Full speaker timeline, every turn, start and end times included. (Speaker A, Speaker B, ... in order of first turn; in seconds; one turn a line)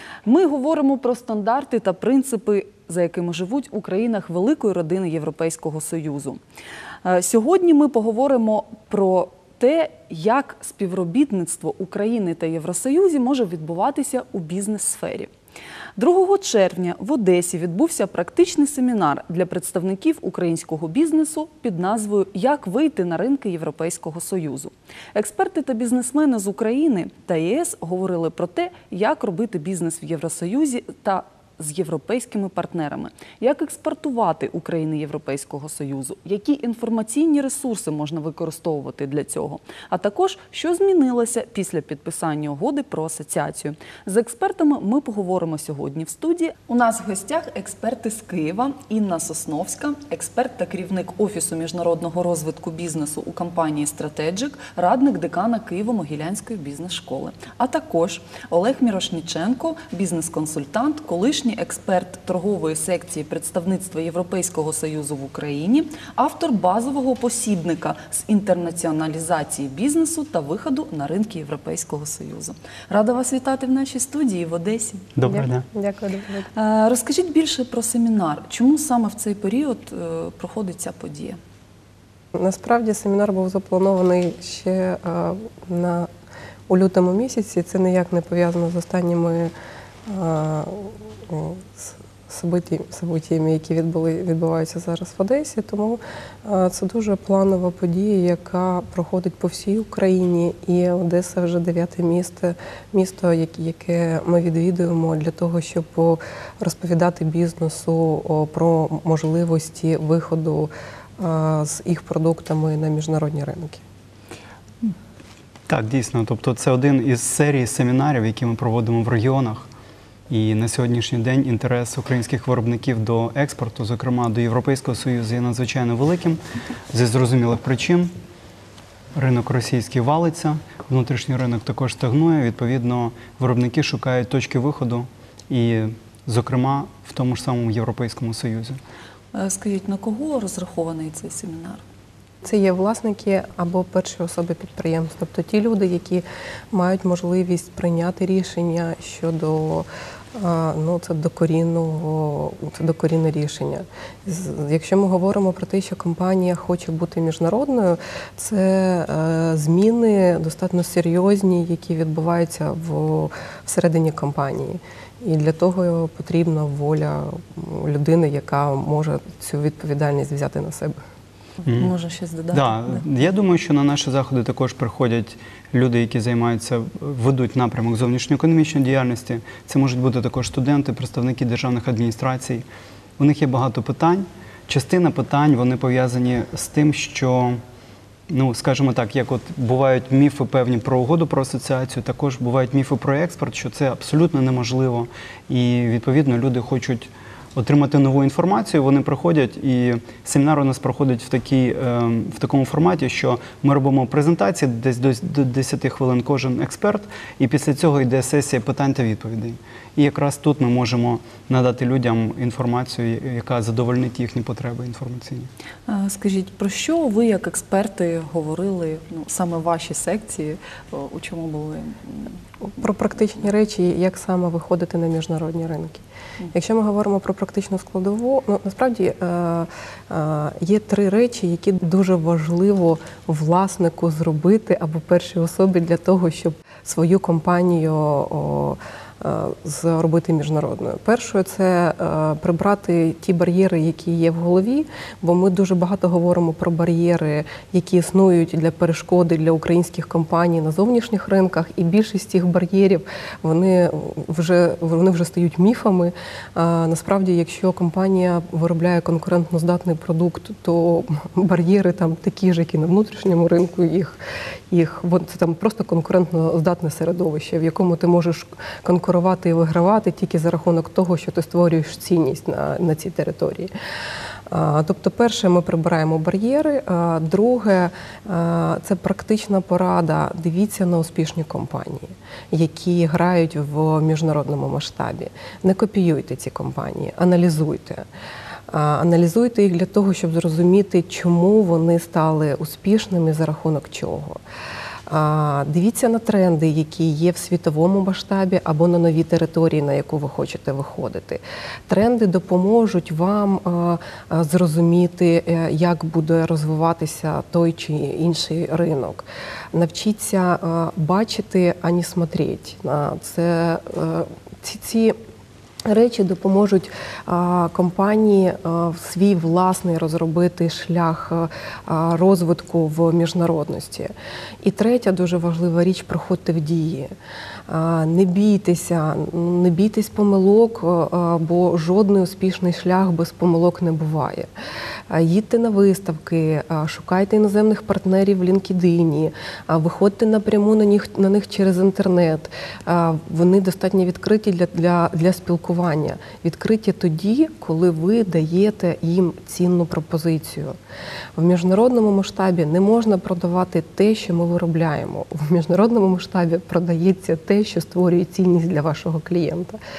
Speaker A: 0.2-6.4
Speaker A: 7.0-15.3
Speaker A: 15.9-75.1
Speaker B: 75.2-75.6
Speaker C: 75.3-76.5
Speaker A: 76.5-81.4
Speaker C: 82.3-86.1
Speaker C: 86.7-89.5
Speaker C: 90.1-113.8
Speaker B: 115.7-119.7
Speaker B: 120.3-126.4
Speaker B: 126.9-128.1
Speaker B: 129.1-138.8
Speaker A: 139.3-141.8
Speaker C: 142.4-171.0
Speaker B: 171.7-171.9
Speaker A: 171.7-173.0
Speaker B: 172.5-182.6
Speaker B: 183.2-187.6
Speaker B: 188.3-215.5
Speaker A: 215.9-222.4
Speaker C: 222.6-226.0
Speaker C: 226.5-264.2
Speaker C: 264.7-273.7
Speaker C: 274.5-288.0
Speaker C: 288.7-294.4
Speaker C: 295.1-315.1
Speaker C: 315.9-324.1
Speaker C: 324.6-327.1
Speaker C: 327.7-334.5
Speaker C: 335.1-350.8
Speaker C: 351.4-359.8